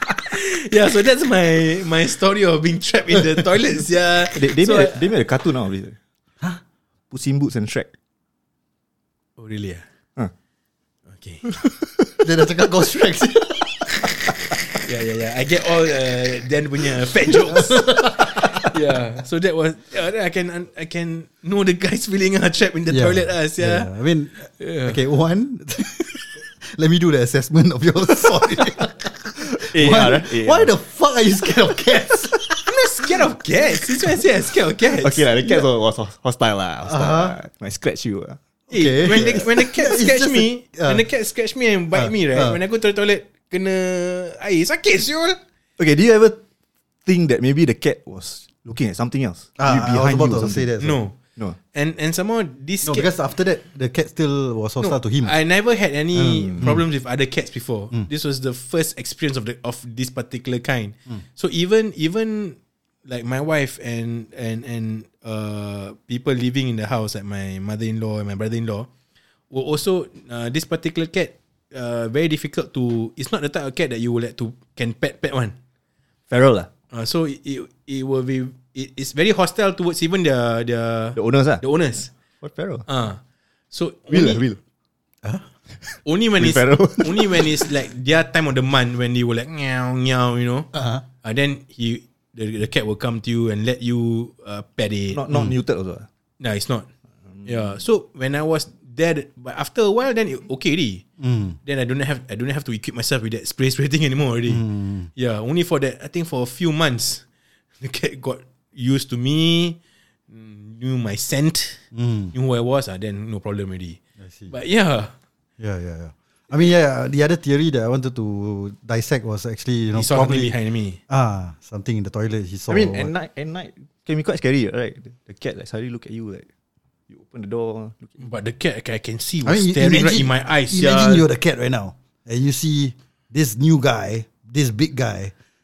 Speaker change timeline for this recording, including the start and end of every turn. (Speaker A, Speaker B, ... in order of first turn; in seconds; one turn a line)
Speaker A: 0.3-5.0
Speaker B: 4.3-6.0
Speaker B: 7.1-7.9
Speaker A: 9.4-9.8
Speaker A: 11.1-11.5
Speaker C: 12.2-13.8
Speaker A: 14.7-23.9
Speaker C: 17.5-18.7
Speaker C: 22.9-32.6
Speaker A: 24.5-25.0
Speaker B: 29.6-30.7
Speaker A: 32.7-35.3
Speaker B: 35.0-38.4
Speaker C: 36.9-37.4
Speaker C: 38.7-41.0
Speaker A: 38.7-45.4
Speaker C: 41.9-42.6
Speaker B: 45.8-46.4
Speaker B: 47.0-50.7
Speaker C: 49.6-51.0
Speaker A: 50.8-51.1
Speaker A: 51.7-53.1
Speaker C: 52.8-55.3
Speaker A: 54.8-68.9
Speaker B: 56.1-56.7
Speaker A: 69.5-75.5
Speaker B: 76.3-76.7
Speaker A: 76.9-82.1
Speaker B: 81.1-81.6
Speaker B: 82.4-82.8
Speaker A: 82.9-83.2
Speaker A: 83.7-84.4
Speaker B: 84.1-84.6
Speaker A: 86.0-90.7
Speaker B: 86.4-87.5
Speaker C: 90.7-91.0
Speaker A: 91.2-95.2
Speaker B: 95.1-96.1
Speaker A: 96.4-96.9
Speaker A: 97.4-101.0
Speaker C: 101.2-101.6
Speaker A: 101.6-104.6
Speaker C: 104.5-105.1
Speaker A: 105.2-107.2
Speaker A: 107.8-109.8
Speaker A: 110.3-114.0
Speaker C: 111.9-112.3
Speaker C: 114.2-114.5
Speaker A: 114.5-115.1
Speaker C: 115.6-120.5
Speaker A: 119.9-121.0
Speaker C: 121.1-123.1
Speaker B: 122.7-126.5
Speaker B: 127.1-128.2
Speaker A: 128.2-131.2
Speaker C: 129.4-135.3